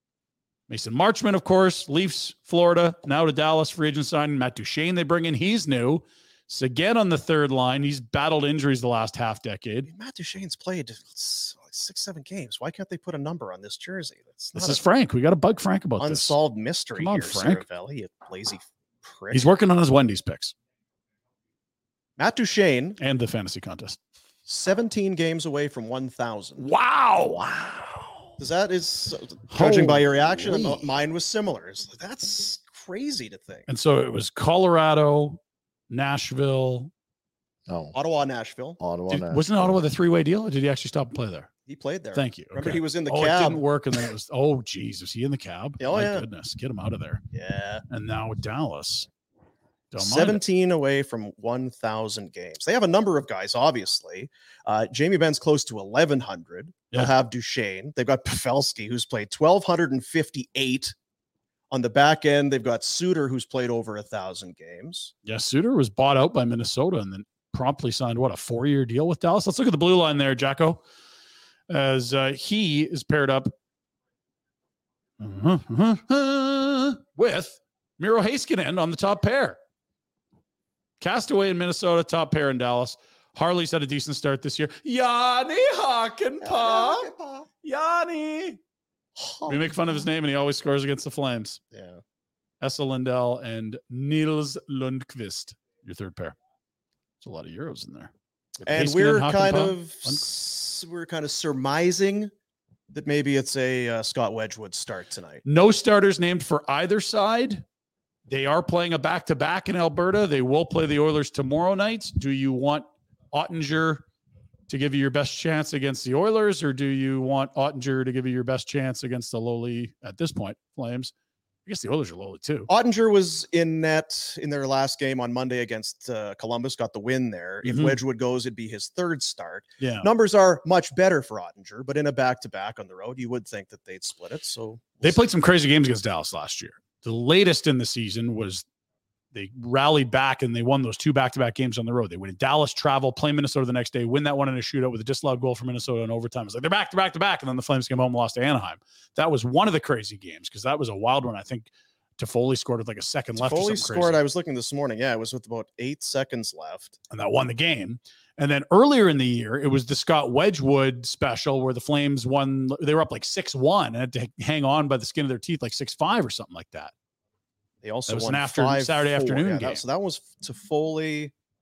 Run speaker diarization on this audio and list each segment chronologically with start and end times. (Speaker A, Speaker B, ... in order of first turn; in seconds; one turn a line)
Speaker A: 0.7-9.9
Speaker B: 9.9-14.8
Speaker A: 14.6-16.4
Speaker B: 16.0-19.5
Speaker A: 17.0-17.6
Speaker A: 19.3-20.5
Speaker B: 22.2-23.0
Speaker A: 23.0-24.0
Speaker B: 24.5-26.6
Speaker A: 26.6-27.8
Speaker B: 28.4-33.7
Speaker A: 29.5-30.0
Speaker C: 29.6-30.9
Speaker A: 33.7-35.4
Speaker A: 35.9-36.9
Speaker C: 37.7-38.0
Speaker B: 37.9-38.8
Speaker C: 38.8-39.8
Speaker A: 39.1-41.5
Speaker B: 41.7-43.6
Speaker A: 42.1-47.2
Speaker B: 45.8-46.3
Speaker B: 47.3-47.8
Speaker A: 47.9-49.1
Speaker A: 49.9-50.4
Speaker B: 50.0-60.9
Speaker B: 61.7-65.1
Speaker A: 65.2-70.8
Speaker A: 71.7-73.5
Speaker A: 75.2-79.6
Speaker A: 81.0-87.1
Speaker B: 86.4-87.5
Speaker A: 87.6-88.6
Speaker B: 89.2-90.0
Speaker A: 89.5-91.6
Speaker B: 91.7-92.0
Speaker A: 92.6-96.4
Speaker A: 97.2-98.1
Speaker B: 98.7-102.3
Speaker A: 98.7-100.2
Speaker B: 102.9-105.4
Speaker A: 105.5-107.6
Speaker A: 108.3-114.0
Speaker A: 114.7-121.1
Speaker A: 121.7-122.7
Speaker B: 122.7-135.2
Speaker A: 127.6-128.0
Speaker A: 129.8-130.1
Speaker A: 135.0-138.7
Speaker A: 139.3-154.2
Speaker B: 153.4-157.0
Speaker A: 157.1-166.9
Speaker B: 167.8-171.3
Speaker A: 168.1-169.8